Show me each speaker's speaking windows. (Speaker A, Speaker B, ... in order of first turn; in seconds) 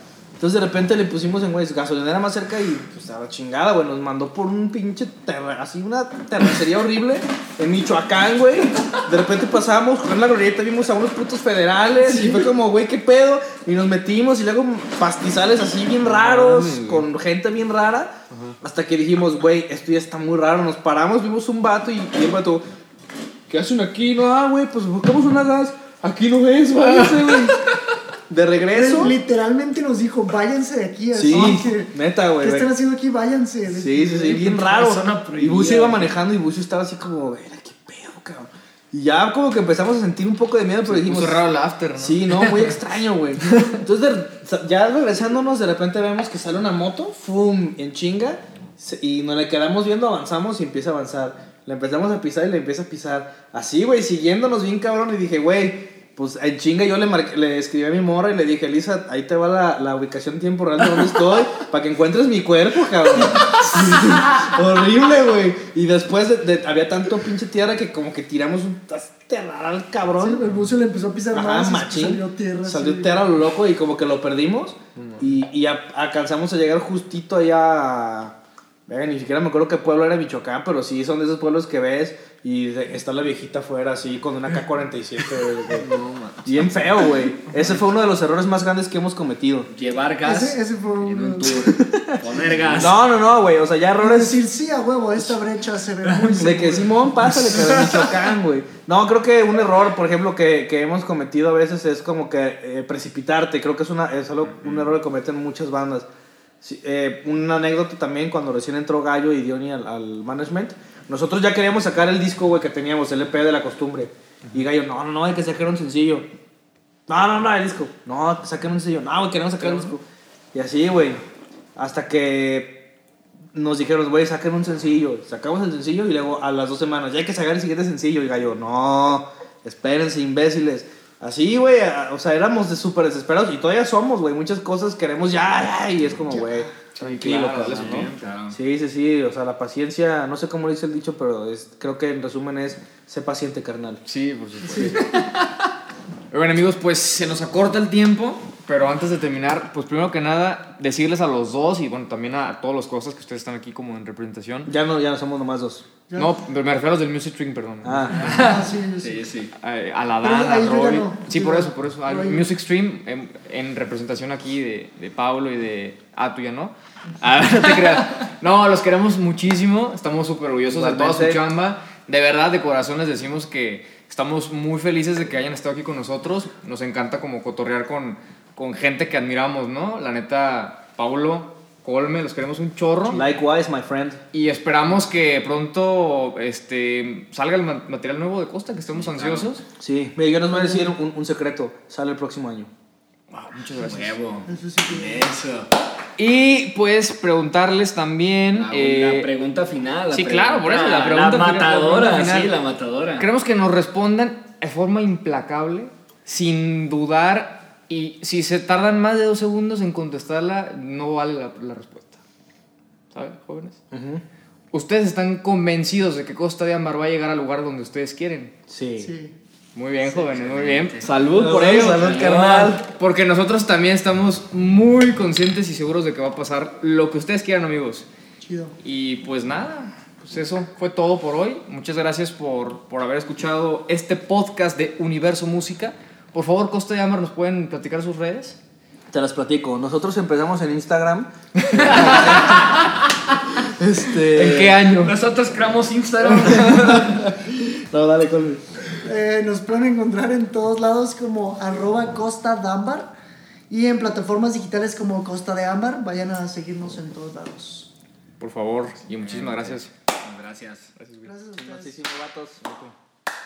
Speaker A: 0.4-22.6, 23.5-27.6, 28.3-29.1, 31.1-32.7, 33.7-41.4, 42.0-70.4, 71.3-78.3, 78.9-85.9, 86.5-89.7, 91.4-92.2, 92.7-94.4, 96.4-106.1, 106.6-116.2, 117.1-120.0, 120.5-121.2, 121.8-122.8, 123.5-144.0, 154.7-155.8, 157.8-158.4, 170.7-171.4, 183.1-184.2, 189.8-192.7, 213.9-214.2, 218.7-219.1, 221.3-222.8, 239.1-242.8, 243.7-244.8, 246.2-248.8, 261.5-262.9
Speaker B: 12.1-12.5, 28.7-34.4, 70.2-73.2, 90.2-91.7, 92.3-92.7, 94.0-97.0, 136.3-136.8, 144.6-145.0, 156.1-156.3, 158.2-159.2, 160.2-162.5, 190.5-190.9, 194.4-195.3, 219.0-219.3, 228.4-228.8, 249.0-253.1, 253.7-257.9, 261.2-262.0
Speaker C: 16.0-17.1, 18.3-18.6, 26.8-27.3, 40.9-42.8, 75.0-75.3, 85.8-86.5, 136.9-138.2, 144.1-145.4, 146.3-154.7, 156.2-158.6, 159.6-183.2, 184.3-189.6, 193.3-194.2, 196.2-199.3, 200.1-202.5, 203.2-212.2, 213.1-213.8, 214.7-218.5, 219.7-228.1, 228.8-238.6, 241.6-242.6, 244.3-245.2, 258.4-259.9, 261.0-261.3
Speaker D: 34.3-36.1, 63.3-64.1, 85.7-86.0, 89.7-93.0, 96.0-96.5, 97.4-98.2, 137.5-138.6, 158.2-159.5, 188.9-189.6, 193.7-195.7, 198.5-203.3, 220.0-221.2, 221.7-222.5, 242.0-242.8, 245.0-247.3, 259.2-260.9